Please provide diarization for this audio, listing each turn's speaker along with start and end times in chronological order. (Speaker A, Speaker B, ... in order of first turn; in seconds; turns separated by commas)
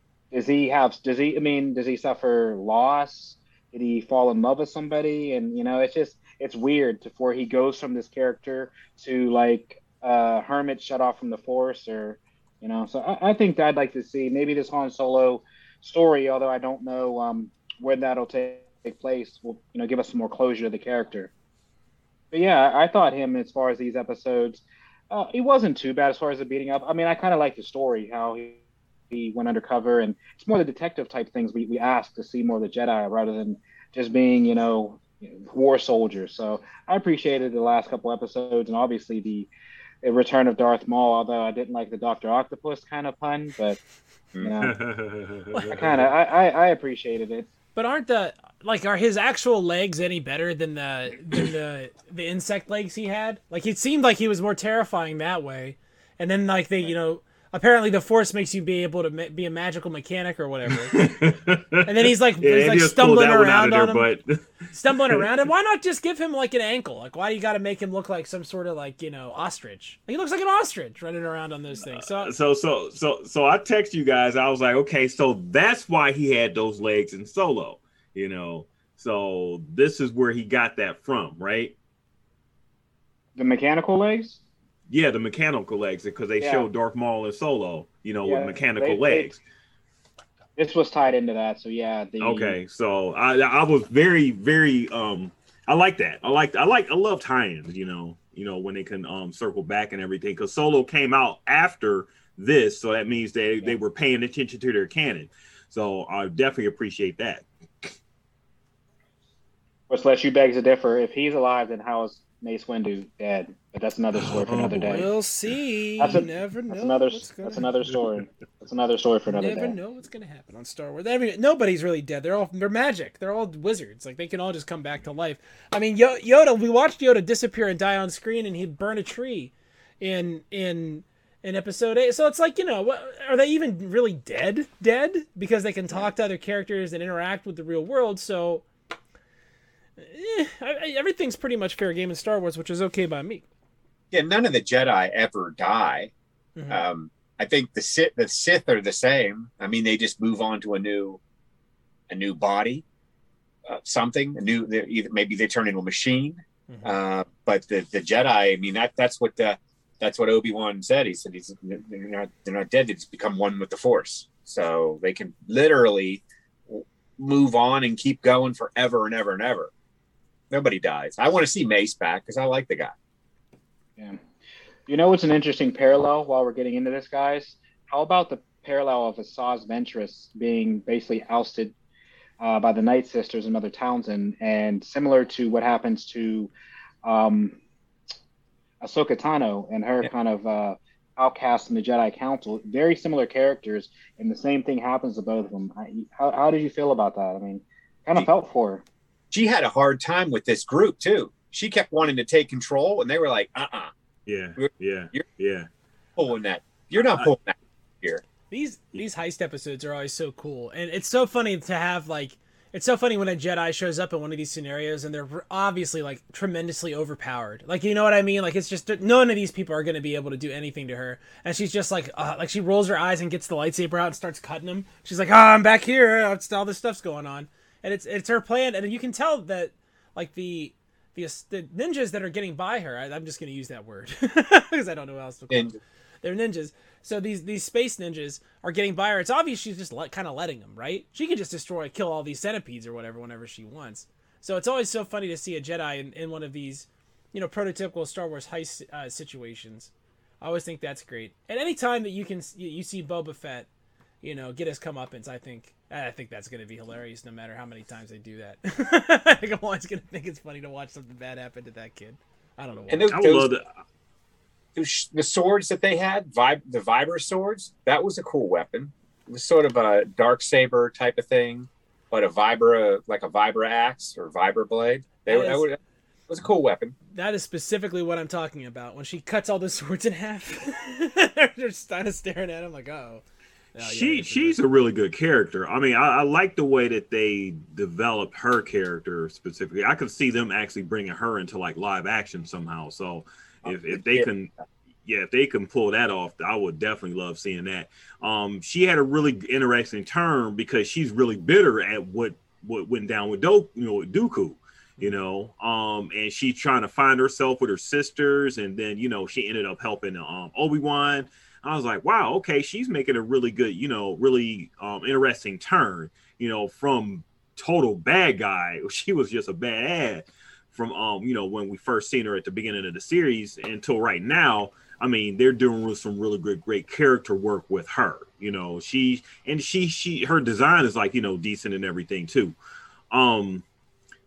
Speaker A: 0.3-21.3, Speaker A: 22.3-39.5, Speaker A: 40.0-43.8, Speaker A: 44.4-44.8, Speaker B: 44.6-46.1, Speaker A: 45.5-47.5, Speaker C: 47.8-61.0, Speaker B: 60.8-64.4, Speaker C: 61.9-64.1, Speaker C: 64.8-72.3, Speaker B: 71.9-81.8, Speaker A: 83.4-84.4, Speaker B: 84.9-89.4, Speaker A: 86.4-86.7, Speaker A: 88.2-89.3, Speaker A: 90.6-92.6, Speaker B: 92.2-107.5, Speaker A: 109.9-115.1, Speaker B: 114.1-115.1, Speaker C: 114.9-117.7, Speaker A: 116.0-119.8, Speaker C: 119.3-138.7, Speaker C: 140.0-143.4, Speaker D: 144.1-146.1, Speaker C: 146.6-146.8, Speaker D: 146.7-151.2, Speaker D: 152.1-152.8, Speaker D: 153.7-169.7, Speaker C: 156.7-156.9, Speaker D: 170.5-172.9, Speaker A: 174.9-181.7, Speaker A: 182.4-186.5, Speaker A: 187.0-187.6, Speaker A: 188.8-198.8, Speaker D: 199.3-203.9, Speaker B: 204.3-205.7, Speaker D: 204.6-205.2, Speaker D: 206.2-208.2, Speaker C: 208.5-253.7, Speaker D: 235.5-235.8, Speaker C: 254.2-263.1, Speaker D: 262.9-263.5, Speaker B: 263.1-263.7, Speaker D: 264.8-275.8, Speaker C: 275.3-275.7, Speaker D: 276.3-276.9, Speaker C: 277.1-284.6, Speaker B: 283.8-294.5, Speaker D: 293.7-294.3, Speaker B: 295.1-332.6, Speaker B: 333.1-333.6